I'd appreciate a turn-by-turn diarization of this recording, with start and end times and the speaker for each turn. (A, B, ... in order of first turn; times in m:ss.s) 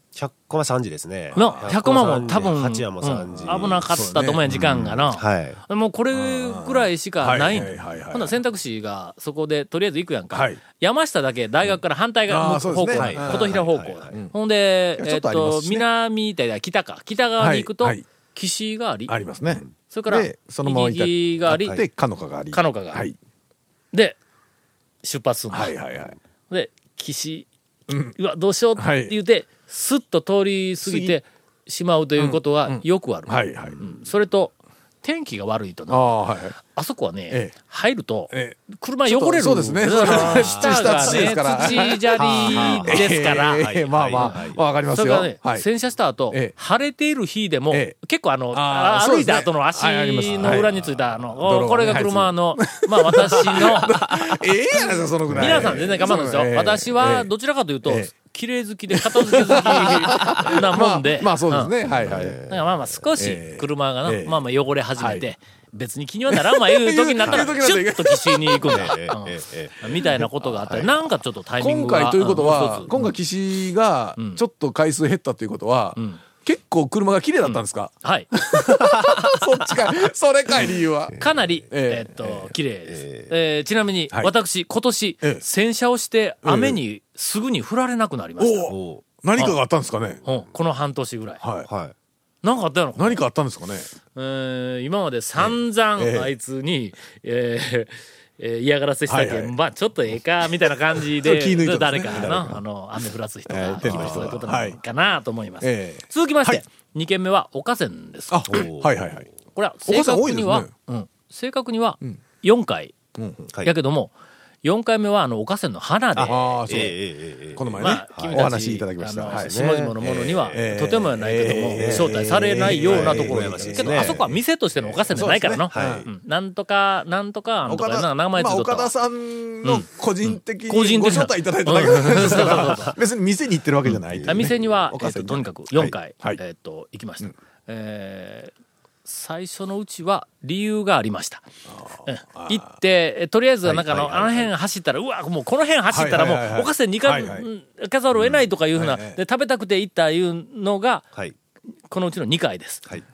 0:00.2-0:03.9 A
0:01.3-0:19.1 B
0:01.4-0:01.8 C
0:03.4-0:04.4 C
0:04.5-0:05.6 A
0:06.1-0:08.4 C
0:10.3-0:10.6 C
0:12.3-0:14.3 C
0:13.0-0:14.2 A
0:15.0-0:15.8 C
0:17.4-0:18.0 C
0:19.1-0:23.2 C
0:19.9-0:21.8 B
0:22.5-0:23.0 B
0:25.0-0:25.8 B
0:25.5-0:26.2 C
0:26.5-0:27.5 B
0:27.9-0:28.2 C
0:28.1-0:44.4 B
0:28.8-0:29.1 C
0:30.8-0:31.2 C
0:32.2-0:33.8 C
0:35.9-0:36.6 C
0:38.3-0:45.7 C
0:40.0-0:44.6 A
0:44.9-0:54.0 B
0:48.5-0:50.7 C
0:50.3-0:50.9 A
0:51.4-0:57.3 C
0:55.3-1:01.8 B
0:55.3-0:55.8 A
0:57.8-0:58.1 C
0:58.9-1:02.4 C
1:01.9-1:03.0 A
1:02.5-1:12.9 B
1:03.2-1:04.4 C
1:05.0-1:05.3 C
1:06.3-1:08.9 C
1:08.6-1:11.0 A
1:11.6-1:21.2 C
1:14.2-1:14.4 B
1:16.0-1:16.2 B
1:17.4-1:18.3 B
1:21.1-1:21.4 A
1:21.2-1:28.7 B
1:21.7-1:22.5 C
1:22.9-1:23.3 A
1:26.4-1:26.8 C
1:28.4-1:30.2 C
1:28.7-1:29.0 A
1:30.2-1:31.4 B
1:31.4-1:31.7 C
1:31.7-1:31.9 A
1:32.4-1:33.2 B
1:33.0-1:33.9 C
1:34.2-1:48.6 B
1:35.4-1:36.3 C
1:39.1-1:39.6 C
1:40.6-1:42.6 C
1:43.5-1:44.8 C
1:43.8-1:44.4 A
1:45.6-1:46.6 C
1:48.3-1:49.3 C
1:48.5-1:49.3 A
1:49.6-1:53.0 B
1:49.8-1:50.7 C
1:53.2-1:53.5 C
1:53.6-1:54.1 B
1:54.6-1:56.8 B
1:56.2-1:58.5 A
1:56.2-1:57.0 C
1:57.6-2:04.2 C
1:57.8-2:08.9 B
1:59.3-2:00.7 A
2:01.8-2:05.1 A
2:05.1-2:06.1 C
2:05.7-2:06.1 A
2:07.7-2:15.5 C
2:09.6-2:13.0 B
2:13.9-2:14.6 A
2:14.3-2:18.5 B
2:19.0-2:21.4 B
2:21.7-2:22.8 C
2:22.1-2:31.1 B
2:23.7-2:24.5 A
2:25.9-2:27.5 C
2:28.7-2:29.2 C
2:31.9-2:32.9 B